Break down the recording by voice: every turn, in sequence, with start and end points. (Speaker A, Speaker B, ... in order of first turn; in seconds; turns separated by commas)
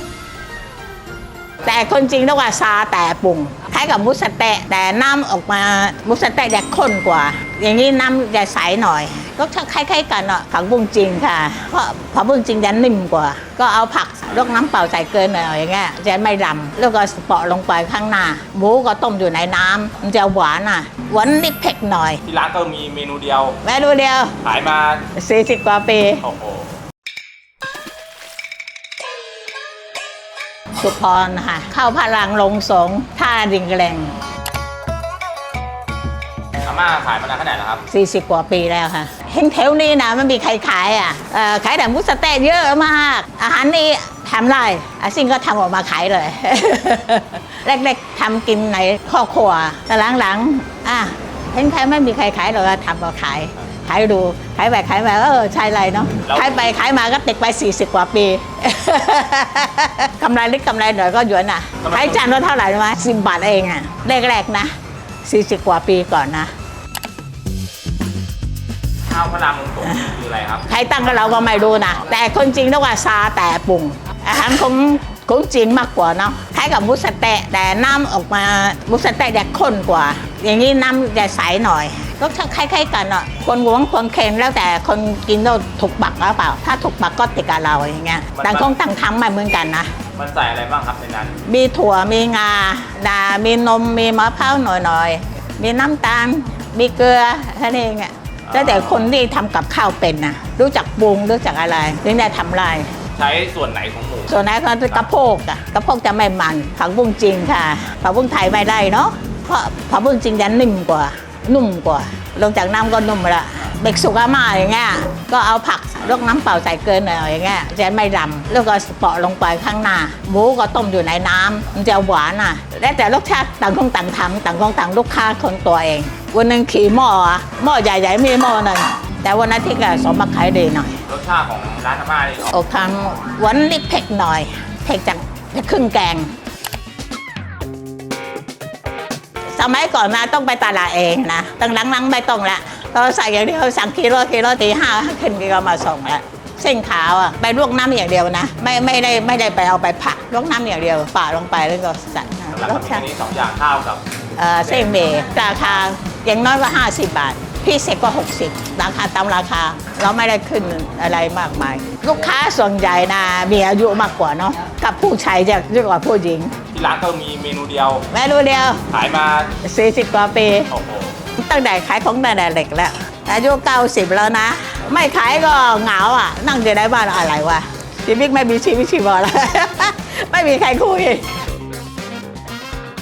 Speaker A: 1.6-22.2, Speaker B: 22.2-23.6, Speaker A: 23.6-24.4, Speaker B: 24.4-25.1, Speaker A: 25.1-26.2, Speaker B: 26.2-26.7, Speaker A: 30.8-34.1, Speaker B: 36.6-37.8, Speaker A: 37.9-66.5, Speaker B: 56.2-56.7, Speaker B: 61.8-62.4, Speaker B: 69.1-70.7, Speaker A: 69.8-70.1, Speaker A: 70.7-90.0, Speaker B: 88.3-88.7, Speaker B: 90.2-91.4, Speaker A: 91.5-102.9, Speaker B: 98.5-99.1, Speaker B: 103.2-104.4, Speaker A: 104.3-131.0, Speaker B: 131.1-132.5, Speaker A: 132.5-136.3, Speaker A: 139.5-153.1, Speaker B: 152.5-154.0, Speaker A: 154.4-166.6, Speaker B: 166.7-168.1, Speaker A: 168.1-168.9, Speaker B: 168.9-169.5, Speaker A: 169.6-170.7, Speaker B: 170.7-171.2, Speaker A: 171.4-181.2